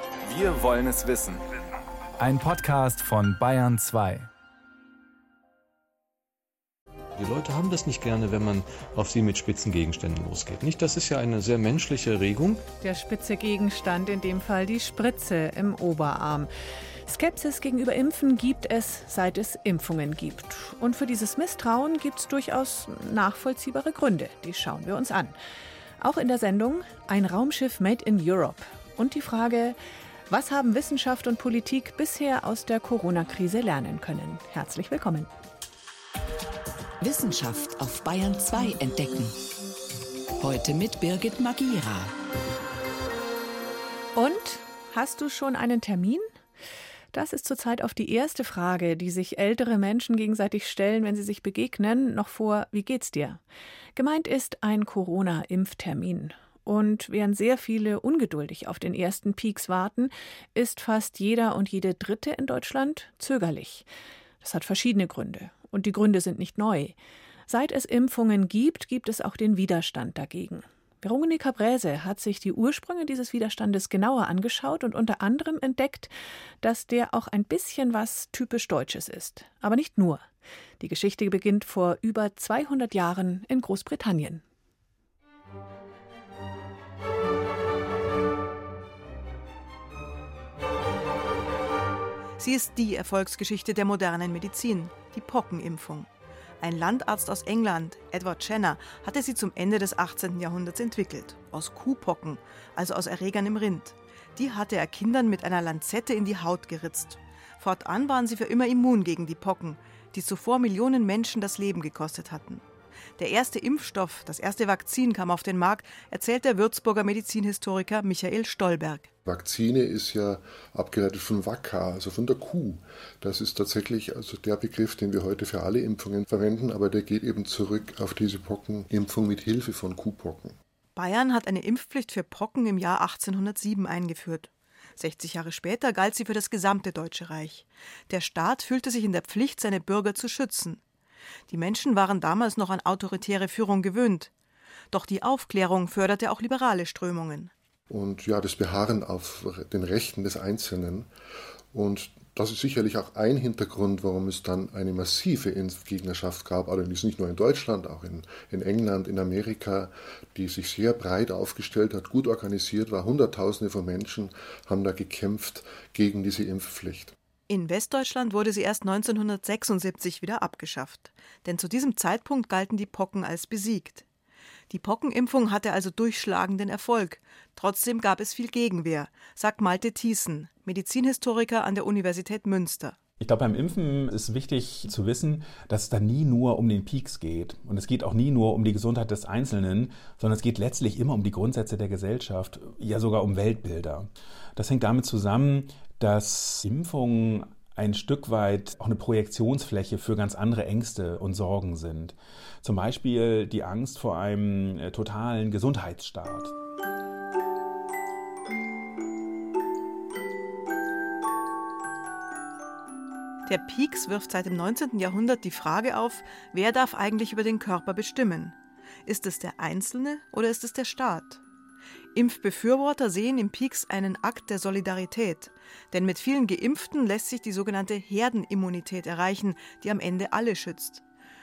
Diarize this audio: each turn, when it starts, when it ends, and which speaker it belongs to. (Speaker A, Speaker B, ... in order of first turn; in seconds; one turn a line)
Speaker A: 0.2-1.4
Speaker A: 2.2-4.3
Speaker B: 7.2-12.6
Speaker C: 12.8-16.5
Speaker C: 17.1-25.4
Speaker C: 26.0-29.8
Speaker C: 30.3-35.3
Speaker D: 37.0-39.4
Speaker D: 40.4-42.1
Speaker C: 44.1-46.2
Speaker C: 47.1-53.4
Speaker C: 54.0-63.9
Speaker C: 64.4-66.9
Speaker C: 67.5-80.2
Speaker C: 80.8-84.4
Speaker E: 92.4-96.1
Speaker E: 96.6-112.6
Speaker E: 113.2-119.1
Speaker F: 119.2-130.6
Speaker E: 130.9-140.8
Speaker E: 141.5-144.3
Speaker E: 144.9-147.5
Speaker F: 147.9-151.1
Speaker F: 151.7-167.1
Speaker E: 167.5-174.0
Speaker E: 174.7-183.0
Speaker G: 183.2-206.5
Speaker E: 213.4-221.4
Speaker E: 222.1-231.0